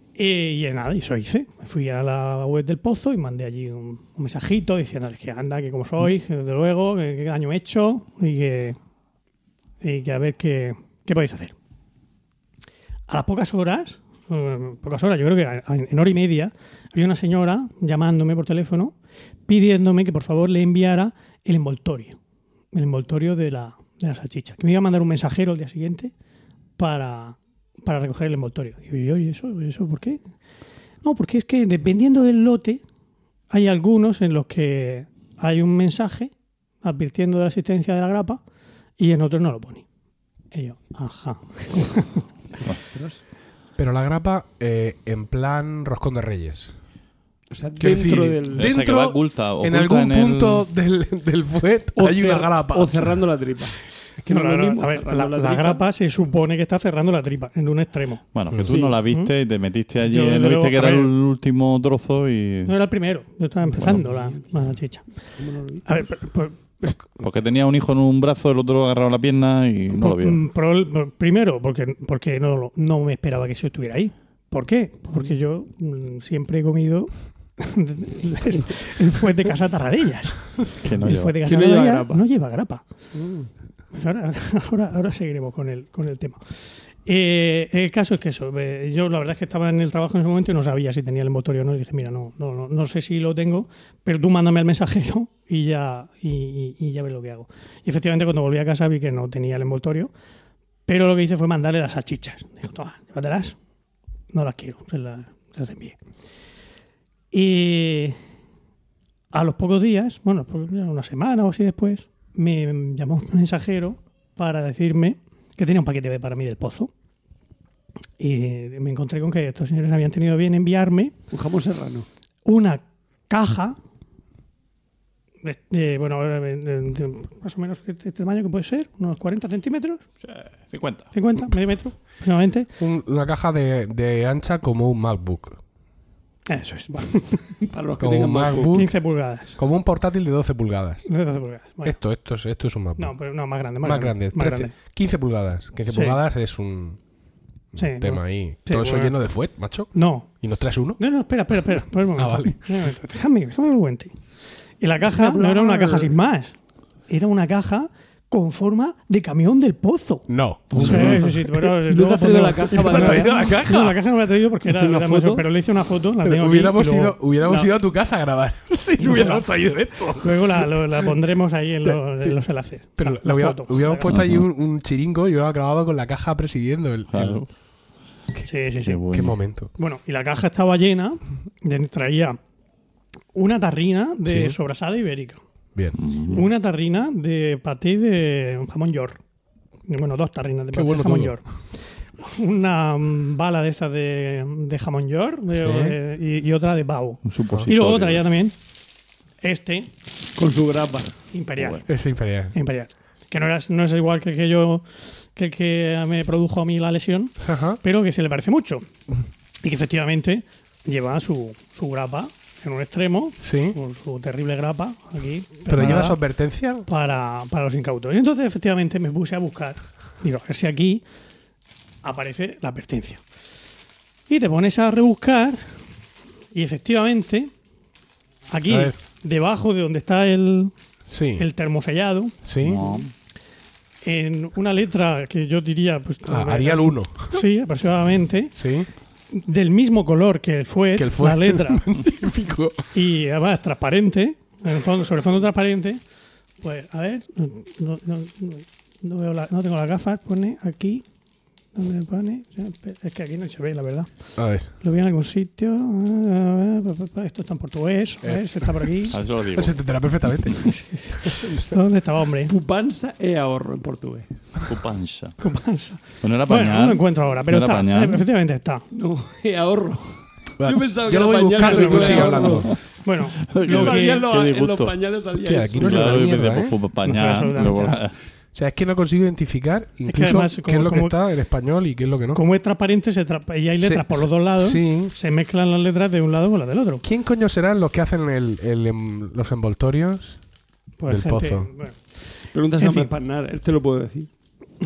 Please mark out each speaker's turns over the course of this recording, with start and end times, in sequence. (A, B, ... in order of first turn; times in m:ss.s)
0:00.2-0:08.8 A
0:09.8-0:11.6 A
0:13.1-0:19.0 A
0:19.5-0:22.2 A
0:22.7-0:26.1 A
0:26.8-0:30.2 A
0:31.0-0:32.8 A
0:33.5-0:38.4 A
0:39.0-0:39.8 A
0:40.5-0:42.3 A
0:42.9-0:43.2 B
0:43.8-0:46.8 C
0:47.5-0:48.7 B
0:47.8-0:53.2 C
0:48.5-0:50.6 D
0:52.0-0:55.8 B
0:54.3-0:59.3 A
0:58.3-1:02.7 D
0:58.5-0:58.8 C
1:00.0-1:01.1 A
1:02.6-1:05.1 A
1:03.7-1:04.7 B
1:05.4-1:06.1 B
1:05.8-1:07.0 A
1:07.2-1:10.4 D
1:10.0-1:22.8 A
1:20.8-1:21.4 D
1:21.4-1:22.2 B
1:23.1-1:23.5 B
1:23.9-1:40.1 A
1:40.9-1:43.6 A
1:44.3-1:46.0 A
1:47.3-1:48.2 A
1:49.3-1:56.9 A
1:58.2-2:01.1 A
2:01.3-2:02.1 B
2:02.5-2:03.8 A
2:05.4-2:10.0 A
2:10.2-2:11.1 D
2:11.1-2:12.7 A
2:12.8-2:15.6 C
2:16.5-2:17.6 A
2:17.6-2:18.8 B
2:18.0-2:19.0 C
2:18.7-2:19.6 A
2:19.5-2:21.1 C
2:21.1-2:22.0 A
2:21.8-2:23.3 C
2:23.0-2:24.7 A
2:23.8-2:27.0 C
2:25.9-2:26.2 A
2:27.7-2:31.0 C
2:27.8-2:29.2 A
2:29.9-2:30.3 A
2:31.0-2:36.6 A
2:32.2-2:32.7 C
2:35.1-2:36.1 B
2:37.1-2:47.7 A
2:40.3-2:41.5 C
2:40.7-2:41.3 B
2:41.9-2:43.5 B
2:42.7-2:44.0 C
2:44.7-2:45.4 B
2:46.2-2:51.1 C
2:49.0-2:49.4 A
2:50.2-2:54.2 A
2:51.8-2:52.4 C
2:53.0-2:57.4 C
2:54.1-2:54.4 D
2:57.1-2:57.5 D
2:58.4-2:59.0 A
2:58.8-2:59.4 D
2:59.1-2:59.7 C
2:59.8-3:02.4 A
3:03.4-3:05.4 A
3:04.3-3:04.6 C
3:06.0-3:06.5 D
3:06.3-3:09.2 A
3:09.9-3:18.6 A
3:10.7-3:11.4 C
3:15.5-3:16.0 C
3:17.2-3:18.2 D
3:19.4-3:19.9 A
3:20.4-3:21.2 B
3:21.3-3:21.9 A
3:21.9-3:22.6 C
3:22.5-3:28.9 A
3:27.4-3:27.8 C
3:29.6-3:36.2 A
3:33.4-3:33.8 C
3:35.7-3:36.9 C
3:36.9-3:41.0 A
3:42.0-3:43.2 A
3:44.3-3:45.8 A
3:46.5-3:47.5 A
3:48.5-3:50.7 A
3:48.7-3:49.0 C
3:51.1-3:51.4 C
3:51.4-3:52.4 A
3:52.4-3:52.9 C
3:52.6-3:53.1 D
3:54.0-3:58.6 A
3:56.3-3:57.4 C
3:58.6-3:58.9 C
3:59.3-4:01.9 A
4:01.0-4:02.9 C
4:02.9-4:06.0 A
4:06.6-4:11.0 A
4:11.8-4:19.2 A
4:14.4-4:14.7 C
4:18.2-4:21.5 C
4:19.1-4:19.8 D
4:20.7-4:22.5 A
4:22.5-4:24.3 B
4:24.7-4:25.4 D
4:25.4-4:28.8 A
4:26.2-4:28.2 D
4:28.9-4:32.7 B
4:30.6-4:32.7 C
4:31.6-4:34.3 A
4:33.5-4:35.0 D
4:33.6-4:36.4 B
4:35.4-4:36.8 C
4:35.8-4:38.2 D
4:37.0-4:38.0 A
4:38.5-4:42.4 C
4:40.1-4:41.2 A
4:42.3-4:47.0 A
4:43.8-4:45.1 C
4:47.0-4:50.4 C
4:51.0-4:53.1 A
4:51.1-4:51.7 C
4:52.5-4:54.3 B